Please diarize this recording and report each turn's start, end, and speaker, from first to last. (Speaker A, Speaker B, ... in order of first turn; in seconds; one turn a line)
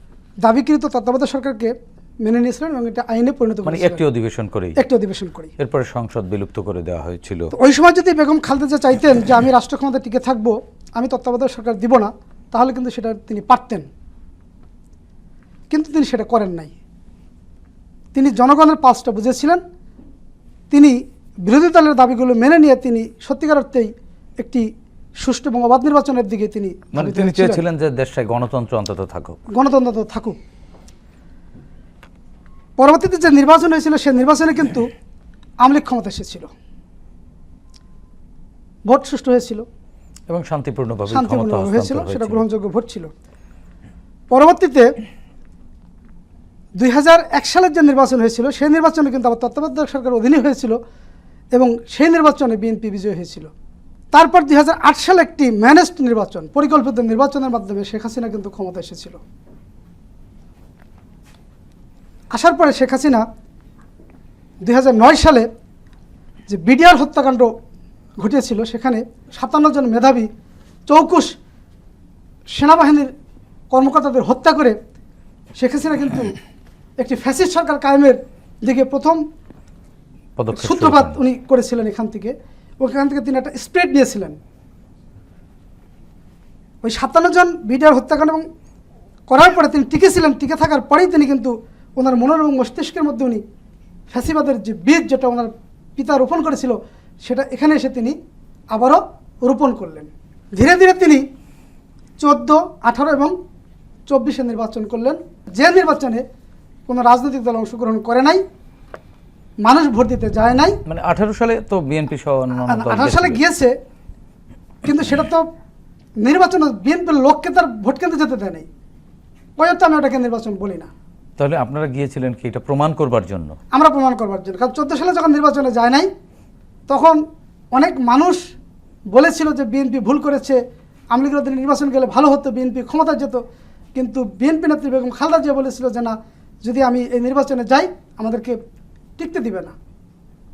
Speaker A: 0.4-4.0
Speaker B: 3.6-4.8
Speaker A: 4.8-5.5
Speaker B: 5.6-7.5
Speaker A: 7.5-13.9
Speaker A: 15.7-16.7
Speaker A: 18.1-19.6
Speaker A: 20.7-24.7
Speaker A: 25.2-27.6
Speaker B: 26.9-29.4
Speaker A: 29.5-30.4
Speaker A: 32.8-34.9
Speaker A: 35.6-36.5
Speaker A: 38.9-39.6
Speaker B: 40.3-42.4
Speaker A: 41.1-43.1
Speaker A: 44.3-44.9
Speaker A: 46.8-50.8
Speaker A: 51.5-53.5
Speaker A: 54.1-59.2
Speaker A: 62.3-63.2
Speaker A: 64.6-65.5
Speaker A: 66.5-67.5
Speaker A: 68.2-70.3
Speaker A: 70.9-71.3
Speaker A: 72.5-73.1
Speaker A: 73.7-74.8
Speaker A: 75.6-76.4
Speaker A: 77.0-79.2
Speaker B: 80.4-81.2
Speaker A: 80.5-84.4
Speaker A: 86.8-88.4
Speaker A: 89.3-93.4
Speaker A: 94.1-98.2
Speaker A: 98.7-101.2
Speaker A: 102.2-103.3
Speaker A: 104.1-106.2
Speaker A: 106.9-108.4
Speaker A: 109.6-110.8
Speaker B: 110.8-113.4
Speaker A: 112.7-113.8
Speaker A: 114.8-115.5
Speaker A: 116.2-118.7
Speaker A: 119.6-120.9
Speaker B: 121.4-123.6
Speaker A: 123.7-126.1
Speaker A: 126.9-127.2
Speaker A: 127.7-128.4
Speaker A: 129.1-130.6
Speaker A: 131.1-133.4
Speaker A: 133.9-138.6
Speaker A: 139.2-139.7